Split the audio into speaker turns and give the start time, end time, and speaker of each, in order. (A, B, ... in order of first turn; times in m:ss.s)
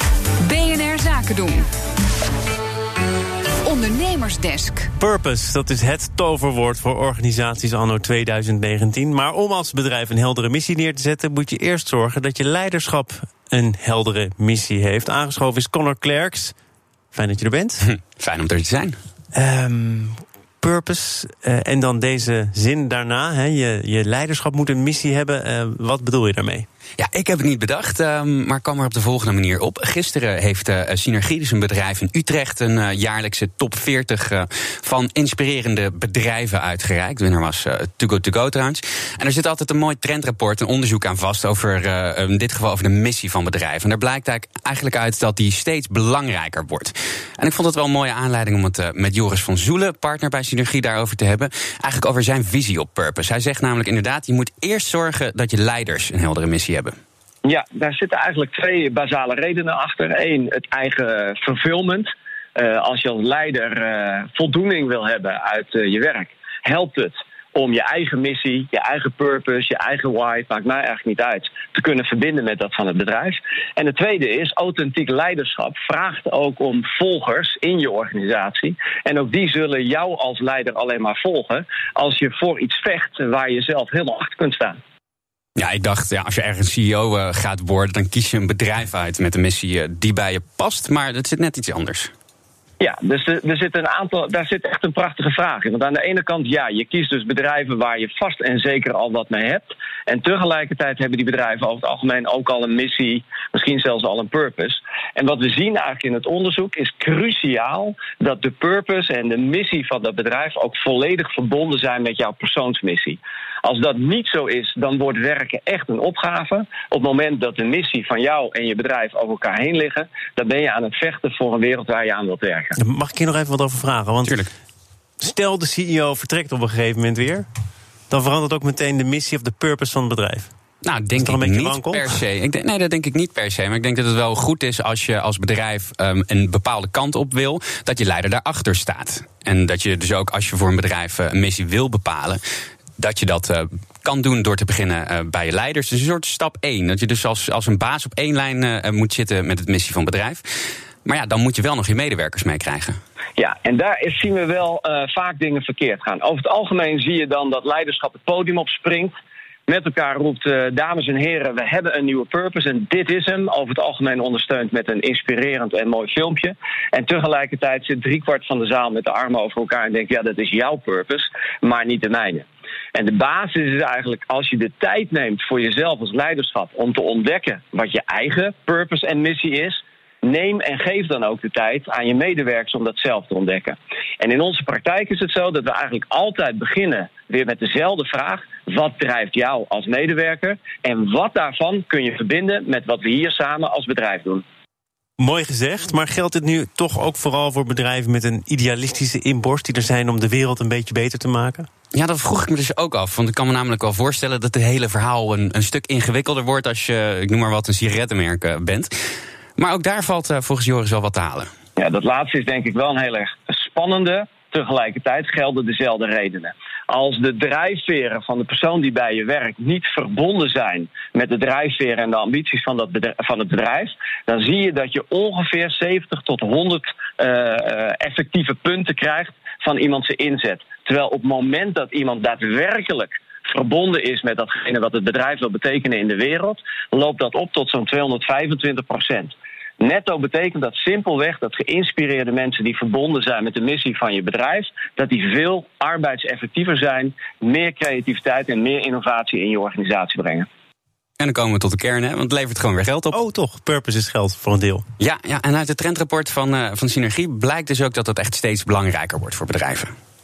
0:00.4-0:01.7 A
0:03.6-0:04.9 A
0:05.0-0:16.5 B
0:17.1-0:17.8 B
0:17.8-0:19.0 C
0:19.3-0:26.7 B
0:27.0-0:57.0 C
0:57.4-1:24.8 D
1:25.6-1:32.1 C
1:32.8-2:02.8 D
2:02.8-2:04.4 B
2:04.2-2:04.5 C
2:05.2-2:07.4 B
2:08.1-2:10.5 B
2:10.8-2:22.4 C
2:11.2-2:12.1 B
2:23.0-2:30.4 C
2:31.0-2:33.0 C
2:33.4-2:39.2 D
2:39.7-3:14.4 D
3:15.2-3:21.7 B
3:21.9-3:28.9 C
3:29.6-3:31.5 C
3:31.8-4:10.5 D
4:11.2-4:13.2 C
4:13.1-4:14.8 B
4:15.0-4:19.9 C